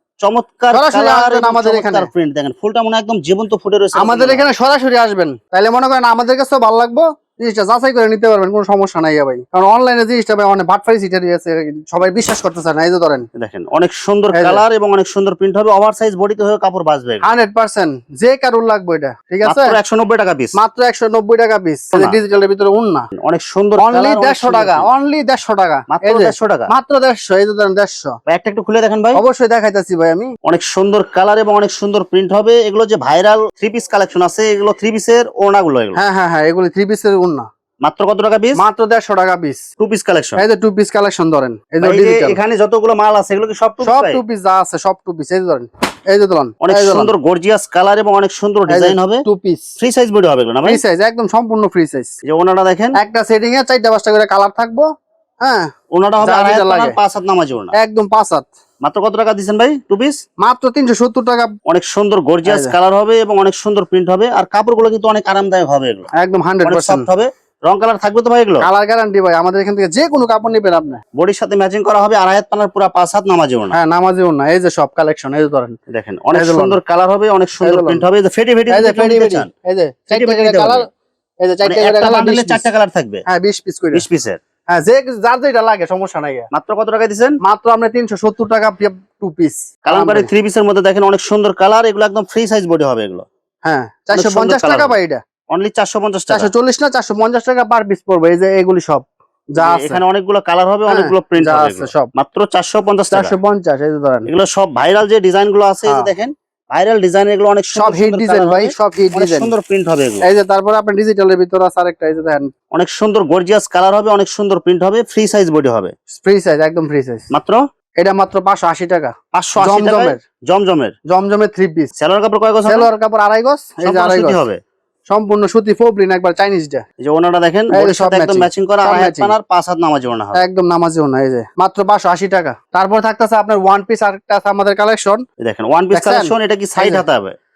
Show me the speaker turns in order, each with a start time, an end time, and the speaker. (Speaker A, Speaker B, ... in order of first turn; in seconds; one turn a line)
Speaker A: 0.2-4.5
Speaker B: 0.7-2.1
Speaker B: 4.0-13.3
Speaker A: 13.3-17.2
Speaker B: 14.3-14.6
Speaker B: 17.2-19.8
Speaker A: 19.4-20.6
Speaker B: 20.6-23.1
Speaker A: 23.2-24.9
Speaker B: 23.8-28.2
Speaker A: 25.9-26.7
Speaker A: 28.3-29.2
Speaker B: 29.1-30.3
Speaker A: 30.4-36.0
Speaker B: 36.0-37.5
Speaker A: 37.8-38.6
Speaker B: 38.6-39.6
Speaker A: 39.8-40.4
Speaker B: 40.4-42.4
Speaker A: 41.8-44.2
Speaker B: 43.8-47.1
Speaker A: 46.6-49.2
Speaker B: 48.7-49.8
Speaker A: 49.8-50.8
Speaker B: 50.6-52.1
Speaker A: 52.2-53.0
Speaker B: 53.0-54.9
Speaker B: 55.4-57.0
Speaker A: 55.9-57.8
Speaker B: 57.7-58.5
Speaker A: 58.8-60.2
Speaker B: 60.4-61.5
Speaker A: 61.7-66.1
Speaker B: 62.5-62.8
Speaker B: 66.1-67.1
Speaker A: 66.6-68.7
Speaker B: 68.6-71.0
Speaker A: 71.2-73.8
Speaker B: 73.7-75.8
Speaker A: 75.9-79.5
Speaker B: 76.3-76.8
Speaker B: 77.6-78.1
Speaker B: 78.7-80.9
Speaker A: 80.1-80.9
Speaker B: 81.4-82.7
Speaker A: 81.7-83.2
Speaker B: 83.3-84.0
Speaker A: 83.9-84.4
Speaker B: 84.7-86.5
Speaker A: 86.5-87.4
Speaker B: 87.4-90.3
Speaker A: 89.9-93.3
Speaker B: 93.7-95.2
Speaker A: 94.1-95.0
Speaker A: 95.5-96.5
Speaker B: 96.3-100.0
Speaker A: 99.6-103.3
Speaker B: 100.9-102.1
Speaker B: 103.1-104.3
Speaker A: 104.3-110.3
Speaker B: 105.8-106.1
Speaker B: 107.8-109.5
Speaker B: 110.2-112.5
Speaker A: 112.7-115.9
Speaker B: 116.1-117.3
Speaker A: 117.3-117.6
Speaker B: 118.0-120.2
Speaker A: 119.3-120.9
Speaker B: 121.1-121.9
Speaker A: 122.0-122.9
Speaker B: 122.7-124.4
Speaker A: 123.8-124.6
Speaker B: 125.1-126.8
Speaker A: 127.0-130.4
Speaker B: 127.7-129.3
Speaker B: 130.3-135.2
Speaker A: 135.4-137.3
Speaker B: 135.9-137.1